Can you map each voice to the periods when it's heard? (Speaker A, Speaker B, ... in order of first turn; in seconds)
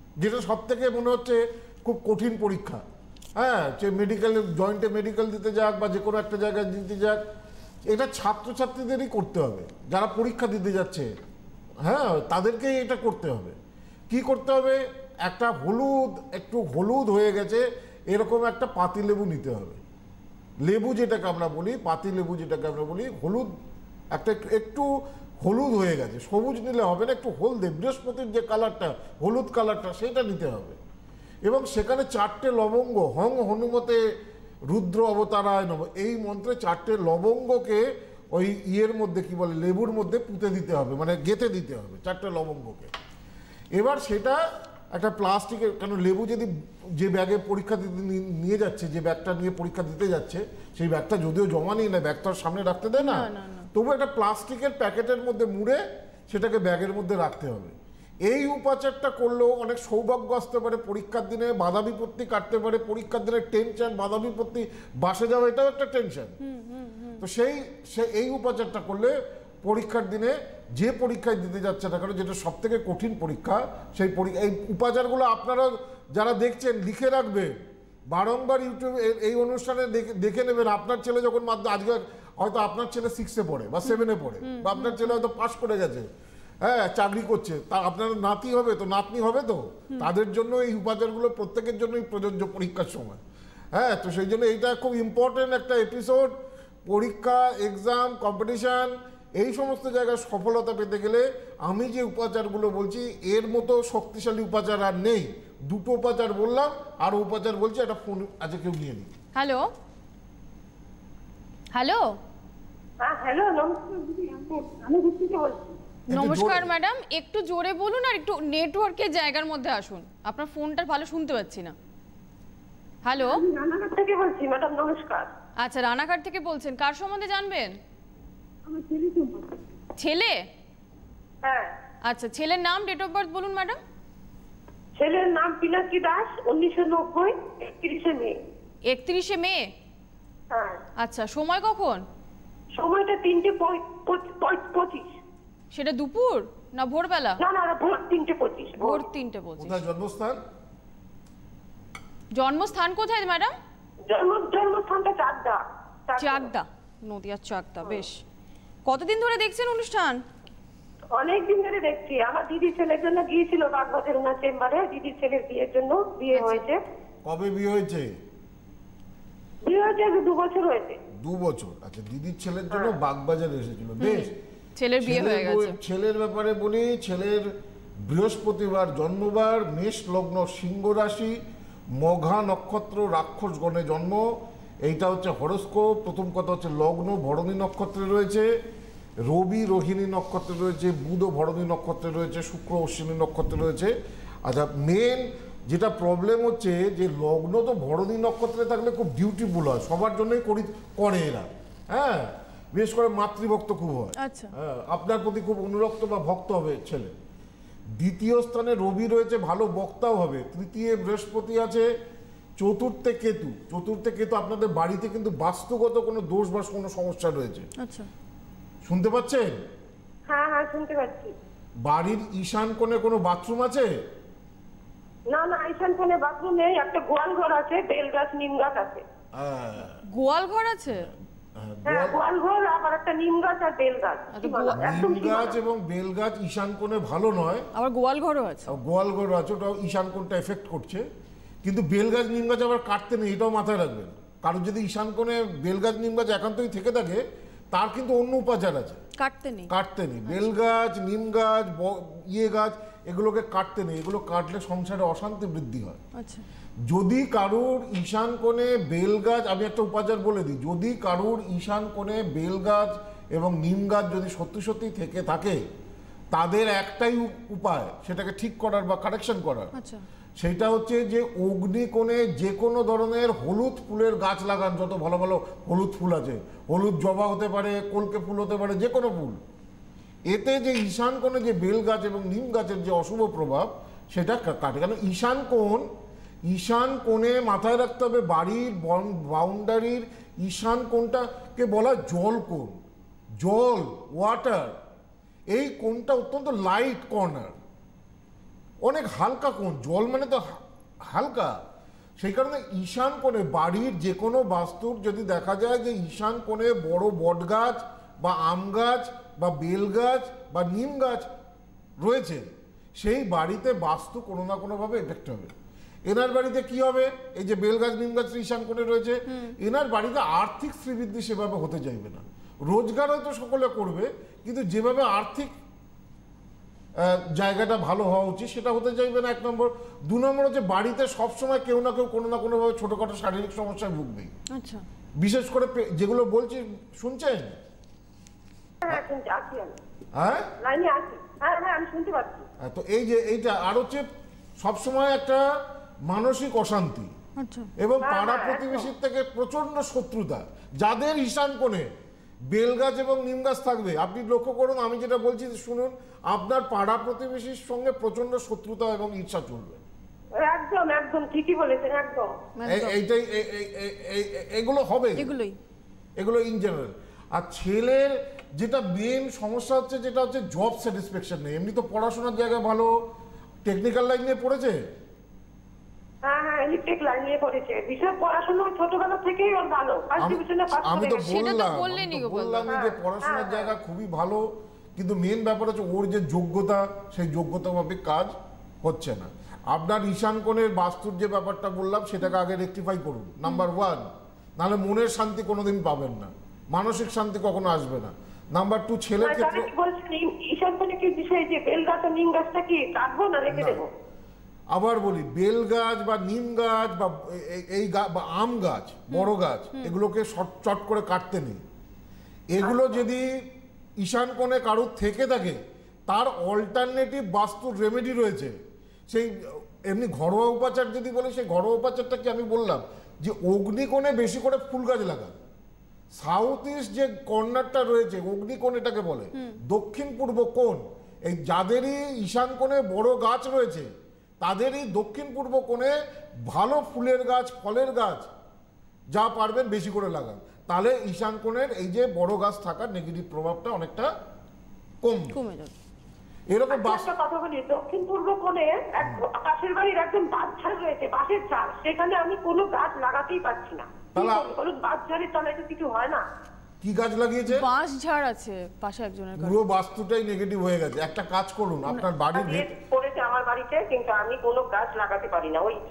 Speaker A: 0.2-2.8, 3.4-7.2, 7.9-11.1, 11.8-13.5, 14.1-19.8, 20.6-23.5, 24.1-24.9, 25.4-30.8, 31.4-34.0, 34.7-42.9, 43.7-44.4, 44.9-66.3, 67.2-77.5, 78.1-86.0, 86.6-93.2, 93.7-96.3, 96.9-109.1, 116.1-116.7, 149.6-150.4, 167.2-168.1, 171.2-174.3, 175.0-177.5, 178.0-181.4, 182.0-184.2, 184.8-188.5, 189.2-193.9, 194.4-207.1, 208.0-211.9, 212.6-217.7, 218.8-219.5, 221.8-223.9, 229.3-230.0, 231.0-232.2, 234.8-237.7, 238.7-241.1, 241.6-249.0, 249.7-256.0, 256.9-265.6, 266.3-269.7, 270.4-279.4, 280.3-285.9, 286.5-292.8, 293.4-294.7, 295.5-297.6, 298.8-301.6, 302.2-311.3, 312.0-315.5, 316.1-325.5, 327.0-334.3, 335.2-337.6, 340.1-340.5, 342.6-344.1, 344.6-345.4, 346.1-347.1, 347.8-351.9, 352.5-359.8, 362.7-365.3, 366.2-372.9, 373.6-374.8, 380.2-384.4, 384.9-394.0, 394.6-399.7, 403.5-403.8, 404.7-411.6, 412.5-413.4, 414.0-418.6, 419.1-425.4, 426.2-433.9, 434.4-435.9, 436.5-438.3, 439.1-444.1, 445.0-445.3, 446.5-447.1, 454.1-454.5, 456.8-457.6, 459.4-462.7
Speaker B: 53.0-53.7, 66.4-67.2, 83.9-85.2, 109.3-109.7, 111.7-112.1, 116.1-121.7, 123.0-123.4, 125.6-127.8, 130.0-130.4, 132.0-133.8, 138.9-139.7, 141.0-142.0, 145.7-147.4, 148.8-149.8, 152.3-153.5, 156.2-158.2, 158.8-160.2, 166.3-166.6, 174.0-175.8, 204.2-204.5, 217.8-218.1, 230.1-231.1, 234.3-234.9, 237.7-238.8, 249.2-249.7, 256.1-256.4, 269.7-270.0, 319.3-319.6, 334.5-334.8, 347.4-347.7, 362.6-363.0, 365.1-365.5, 381.2-382.7, 409.1-409.9, 445.3-445.7, 457.5-459.6
Speaker C: 113.0-115.7, 123.2-125.3, 128.7-129.5, 131.4-131.7, 135.0-138.3, 140.5-140.8, 142.7-145.1, 147.4-149.0, 154.1-156.5, 161.1-166.8, 169.6-171.0, 172.7-172.9, 220.3-221.3, 225.3-229.0, 231.8-235.6, 338.8-339.8, 340.6-342.4, 348.0-348.9, 360.4-362.3, 376.2-381.4, 382.7-383.7, 399.2-403.9, 412.6-413.0, 446.7-456.2, 462.3-465.8